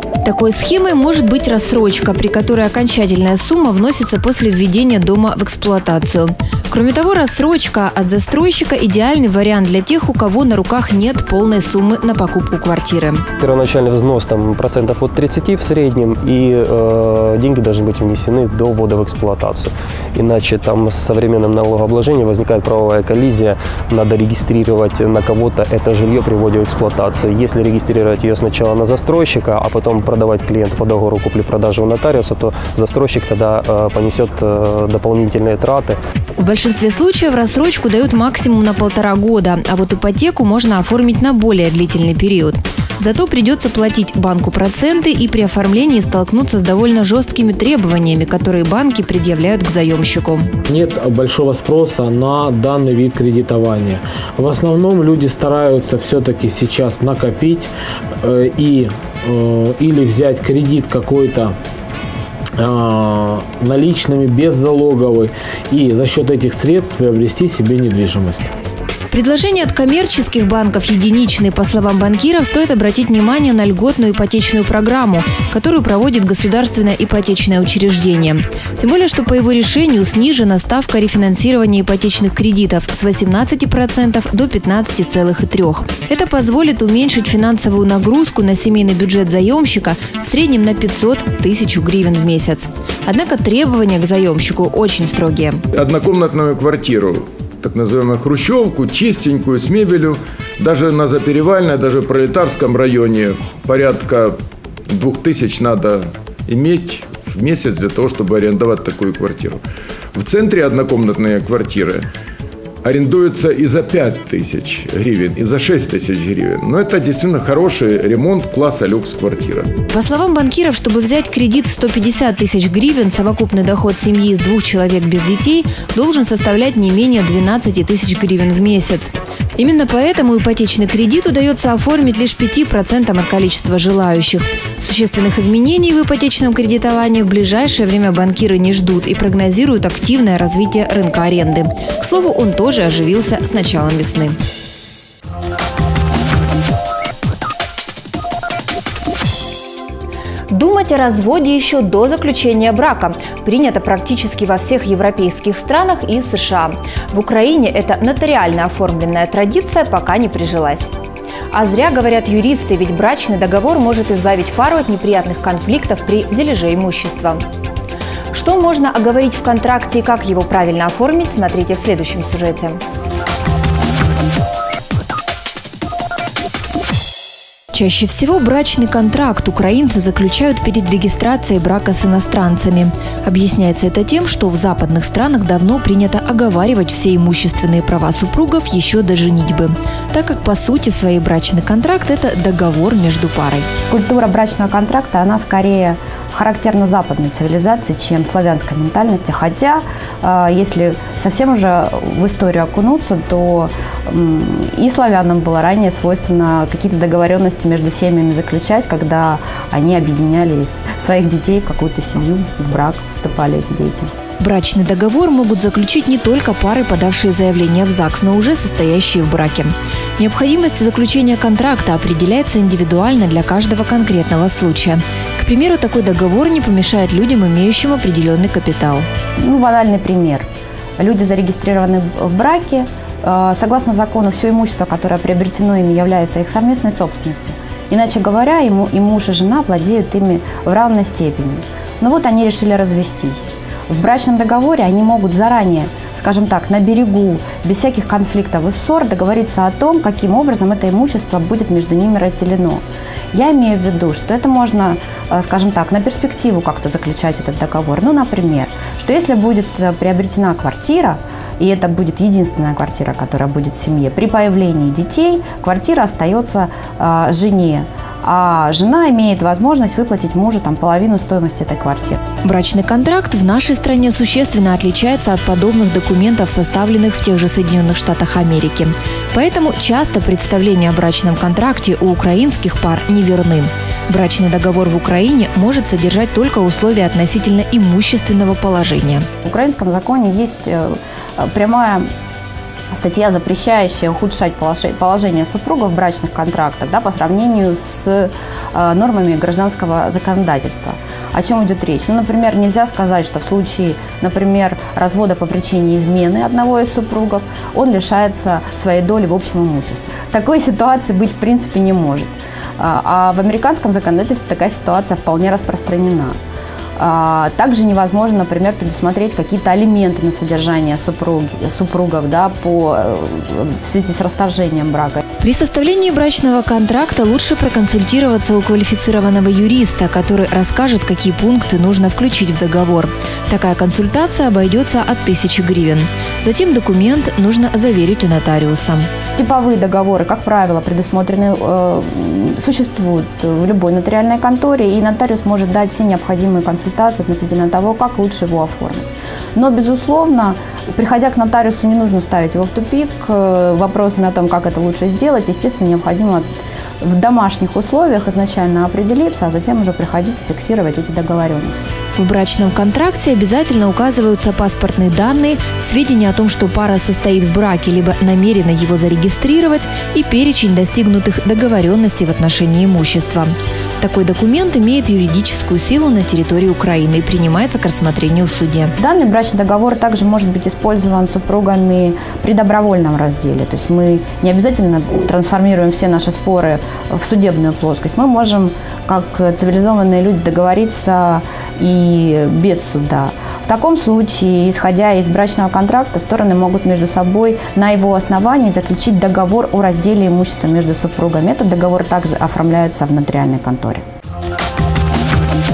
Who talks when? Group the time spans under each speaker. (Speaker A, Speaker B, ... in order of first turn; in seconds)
Speaker A: 0.2-13.3, 36.4-50.5, 69.1-95.6, 119.9-144.4, 150.5-160.9, 161.5-167.4, 168.3-172.8, 177.7-193.7, 214.4-229.1, 272.4-289.3, 325.4-339.1, 362.2-378.9
Speaker B: 13.4-36.0
Speaker C: 50.7-57.7, 58.2-61.6, 62.6-68.5
Speaker D: 95.7-104.4, 104.9-109.6, 110.2-112.1, 112.8-119.7
Speaker E: 193.9-214.1, 229.4-230.5, 231.0-252.8, 253.3-272.2, 289.4-292.1, 292.9-316.4, 317.0-325.2, 339.4-356.5, 357.0-361.9, 379.0-404.0